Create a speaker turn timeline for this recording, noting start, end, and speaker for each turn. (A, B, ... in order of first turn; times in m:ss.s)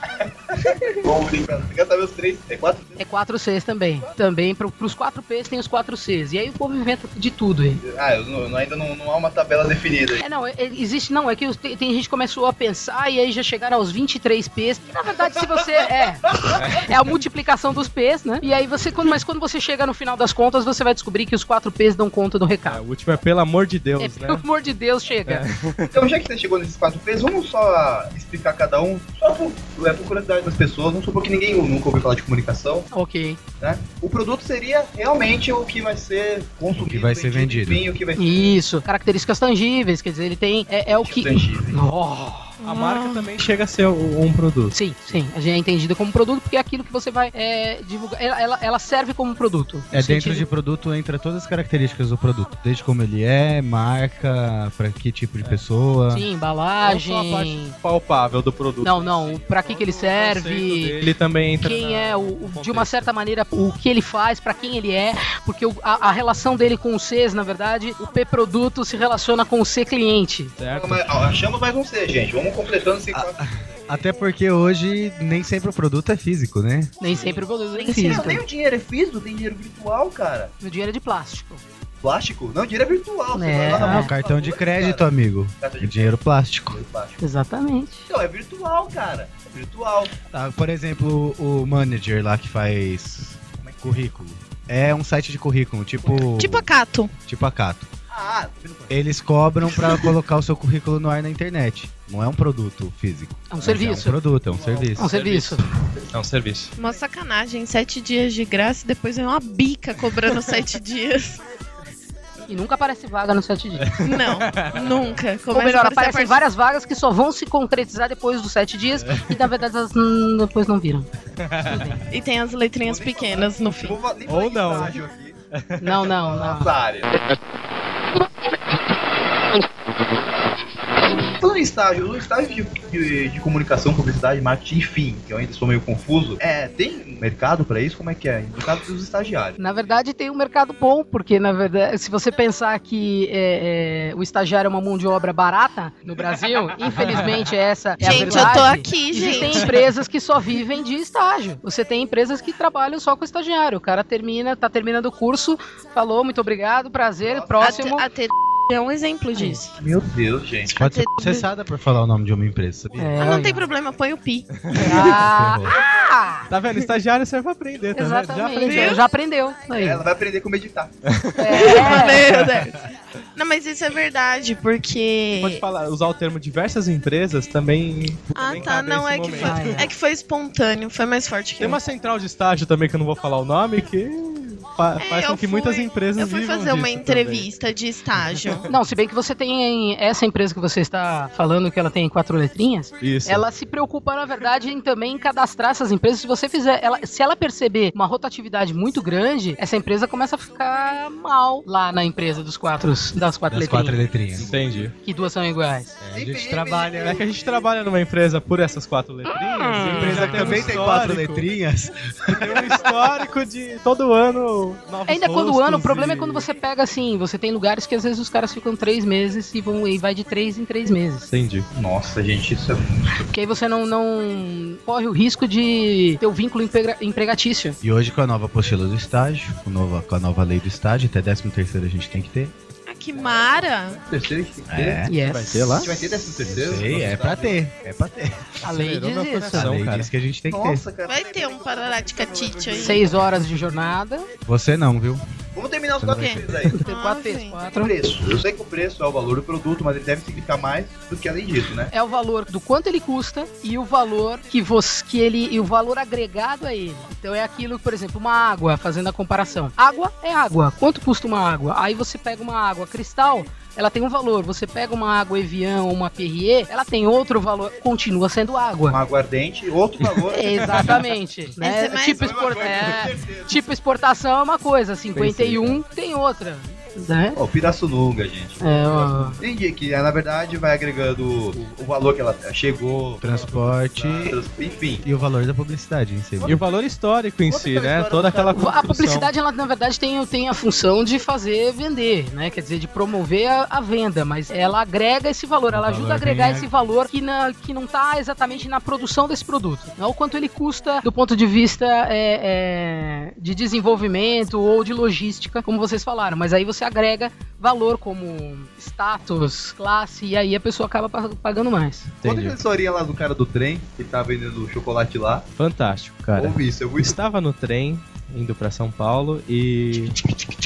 0:00.2-0:03.0 A
0:03.0-0:07.8 B
0:07.8-0:10.2 A
0:10.2-0:22.8 B
0:16.5-0:16.9 C
0:22.6-0:24.4 C
0:24.0-0:25.4 B
0:25.3-0:26.0 C
0:25.9-0:32.9 A
0:32.9-0:33.4 B
0:33.6-0:38.6 A
0:36.7-0:37.8 D
0:38.2-0:42.5 B
0:40.8-0:41.8 A
0:42.6-0:43.3 E
0:42.6-0:44.8 C
0:44.7-0:50.5 B
0:49.9-0:56.2 D
0:56.1-0:57.7 B
0:56.8-0:57.5 D
0:57.0-1:03.1 C
0:58.8-1:01.0 B
1:01.6-1:10.5 B
1:10.6-1:11.1 C
1:10.7-1:13.4 A
1:13.1-1:16.9 D
1:17.0-1:18.4 B
1:17.0-1:17.4 C
1:17.8-1:18.4 E
1:17.9-1:20.5 A
1:20.6-1:21.6 B
1:22.0-1:27.2 A
1:23.3-1:24.1 B
1:23.8-1:26.8 D
1:27.2-1:28.0 B
1:28.1-1:30.2 A
1:30.3-1:36.7 D
1:33.6-1:34.1 A
1:36.3-1:37.1 E
1:37.2-1:37.9 D
1:38.1-1:39.1 A
1:38.9-1:45.1 D
1:43.5-1:44.2 B
1:44.4-1:45.0 A
1:45.0-1:45.6 B
1:45.1-1:45.6 C
1:46.1-1:46.7 C
1:46.8-1:51.4 E
1:52.5-1:54.0 B
1:53.9-1:54.9 C
1:54.0-1:56.4 E
1:55.5-2:01.1 B
1:59.0-1:59.4 C
2:01.4-2:02.0 C
2:01.6-2:02.0 B
2:02.1-2:04.0 E
2:02.8-2:05.4 A
2:04.3-2:05.0 C
2:05.5-2:06.0 C
2:05.8-2:06.7 B
2:06.1-2:07.1 A
2:11.4-2:19.6 A
2:19.6-2:38.0 B
2:27.0-2:27.3 C
2:28.0-2:29.7 E
2:28.1-2:28.6 C
2:37.2-2:37.7 A
2:37.6-2:39.7 E
2:39.3-2:39.6 B
2:39.8-2:40.7 A
2:40.7-2:41.5 E
2:40.7-2:43.2 D
2:43.0-2:43.7 B
2:43.2-2:44.5 E
2:44.6-2:45.2 C
2:44.8-2:46.5 B
2:45.0-2:45.8 D
2:46.5-2:49.0 C
2:48.0-2:50.0 B
2:48.6-2:49.0 E
2:49.7-2:50.9 A
2:51.1-2:52.6 C
2:51.4-2:52.3 B
2:51.5-2:52.7 E
2:53.3-2:55.6 E
2:55.4-2:59.9 C
2:58.3-3:01.8 E
2:59.4-2:59.9 B
3:01.6-3:07.5 C
3:05.0-3:08.7 E
3:08.3-3:08.6 C
3:08.7-3:24.1 B
3:13.0-3:13.4 C
3:23.5-3:24.6 D
3:24.4-3:24.9 C
3:25.0-3:26.0 B
3:26.0-3:27.2 D
3:26.1-3:27.7 A
3:27.0-3:31.4 C
3:29.8-3:30.6 B
3:29.8-3:32.8 D
3:32.3-3:36.5 C
3:35.1-3:41.3 B
3:41.3-3:41.7 C
3:41.7-3:43.3 A
3:43.3-3:47.8 B
3:47.8-3:52.5 D
3:52.8-3:54.0 E
3:54.0-3:55.0 A
3:54.7-3:55.2 D
3:55.1-3:55.8 B
3:55.2-3:55.9 C
3:55.7-3:57.6 A
3:56.4-3:58.5 D
3:58.6-3:59.7 B
3:58.6-4:00.1 C
3:59.5-4:00.8 D
4:00.4-4:03.4 A
4:01.0-4:03.0 E
4:02.8-4:04.3 B
4:04.4-4:05.2 D
4:05.5-4:06.8 A
4:06.0-4:06.5 D
4:06.2-4:07.7 E
4:06.7-4:07.9 B
4:07.7-4:11.9 A
4:11.9-4:29.0 B
4:28.9-4:30.9 A
4:30.3-4:37.4 B
4:31.6-4:32.4 E
4:32.2-4:33.6 A
4:35.2-4:35.8 D
4:37.4-4:45.0 A
4:38.6-4:39.4 B
4:43.2-4:44.4 D
4:45.0-4:46.6 D
4:46.4-4:46.6 A
4:46.4-4:49.3 C
4:47.5-4:48.8 A
4:48.5-5:12.1 B
4:55.7-4:56.7 D
5:12.2-5:12.6 C
5:12.2-5:15.5 A
5:15.6-5:20.2 C
5:16.4-5:17.2 A